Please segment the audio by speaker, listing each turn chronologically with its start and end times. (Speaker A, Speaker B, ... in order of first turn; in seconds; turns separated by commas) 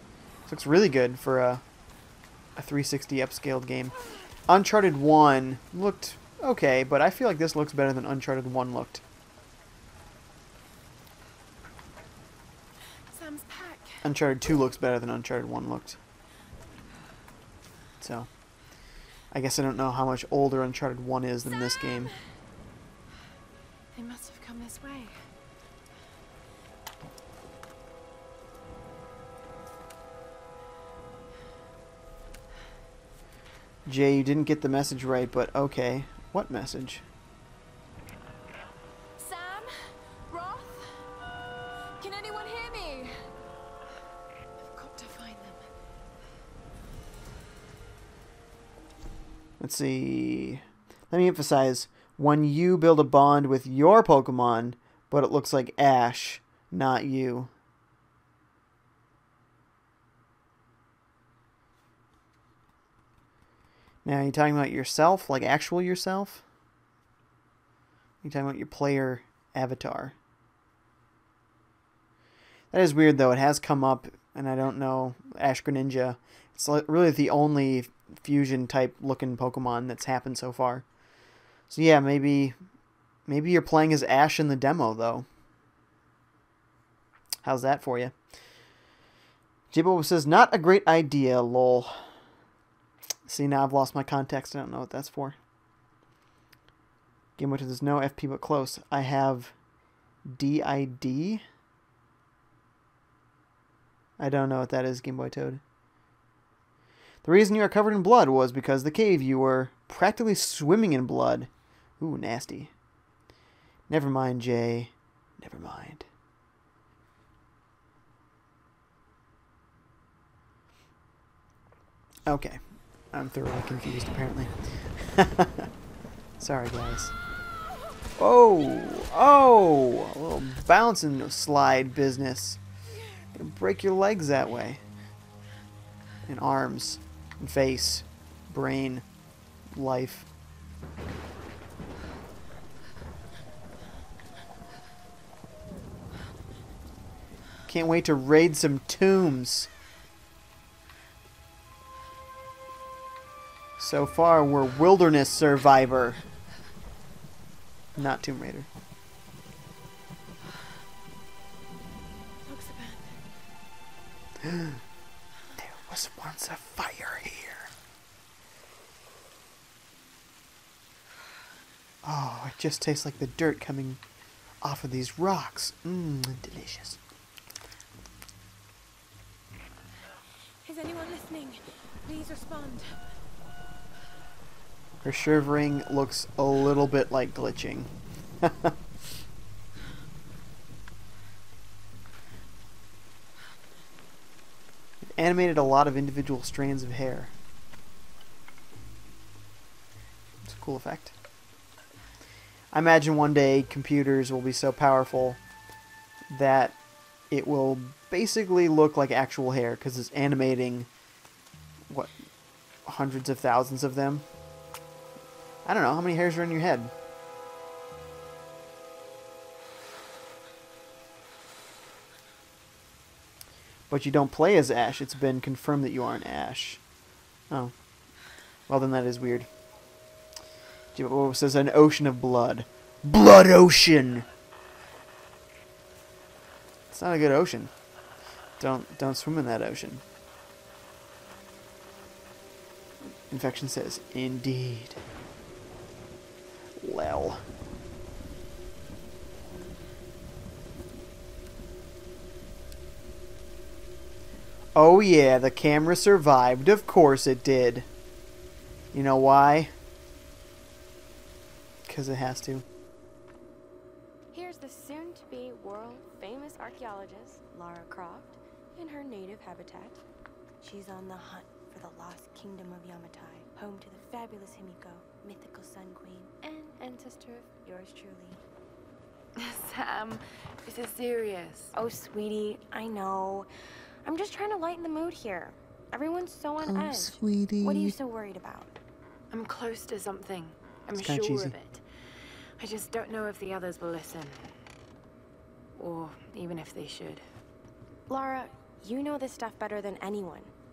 Speaker A: 0.5-1.6, Speaker A: 2.6-3.9, Speaker A: 4.5-9.0, Speaker B: 13.1-14.0, Speaker A: 14.0-16.0, Speaker A: 18.0-18.3, Speaker A: 19.3-22.1, Speaker B: 23.9-25.3, Speaker A: 33.9-37.0, Speaker B: 39.2-41.0, Speaker B: 42.0-43.3, Speaker B: 44.6-45.7, Speaker A: 49.6-57.5, Speaker A: 64.0-66.4, Speaker A: 68.2-70.1, Speaker A: 72.7-80.8, Speaker A: 81.7-82.5, Speaker A: 83.3-85.2, Speaker A: 87.4-88.1, Speaker A: 89.7-92.0, Speaker A: 93.3-95.3, Speaker A: 97.4-99.5, Speaker A: 100.2-101.4, Speaker A: 104.2-105.6, Speaker A: 107.2-112.7, Speaker A: 113.9-116.1, Speaker A: 122.2-122.6, Speaker A: 123.1-125.7, Speaker A: 126.4-127.1, Speaker A: 128.2-132.6, Speaker A: 133.3-134.8, Speaker A: 136.3-139.0, Speaker A: 139.7-140.3, Speaker A: 147.7-149.7, Speaker A: 153.8-156.2, Speaker A: 157.9-158.7, Speaker B: 162.4-163.2, Speaker A: 164.4-164.8, Speaker A: 165.6-167.7, Speaker A: 172.0-174.0, Speaker A: 174.6-177.0, Speaker B: 180.6-183.0, Speaker A: 185.0-188.7, Speaker A: 195.2-197.3, Speaker A: 200.4-201.1, Speaker A: 202.7-205.4, Speaker A: 206.3-206.8, Speaker A: 207.3-210.9, Speaker A: 212.8-214.2, Speaker A: 215.6-216.9, Speaker A: 223.9-226.8, Speaker A: 228.7-229.5, Speaker A: 230.9-234.2, Speaker A: 236.9-237.7, Speaker A: 238.6-240.0, Speaker A: 243.3-245.0, Speaker A: 246.8-247.4, Speaker A: 254.7-257.9, Speaker A: 258.9-259.7, Speaker A: 261.9-262.6, Speaker C: 264.3-270.0, Speaker C: 270.6-278.4, Speaker B: 279.4-281.7, Speaker C: 281.7-283.5, Speaker C: 284.0-288.8, Speaker A: 286.6-287.9, Speaker B: 289.3-294.5, Speaker A: 290.9-291.5, Speaker B: 295.8-297.2, Speaker C: 298.1-300.5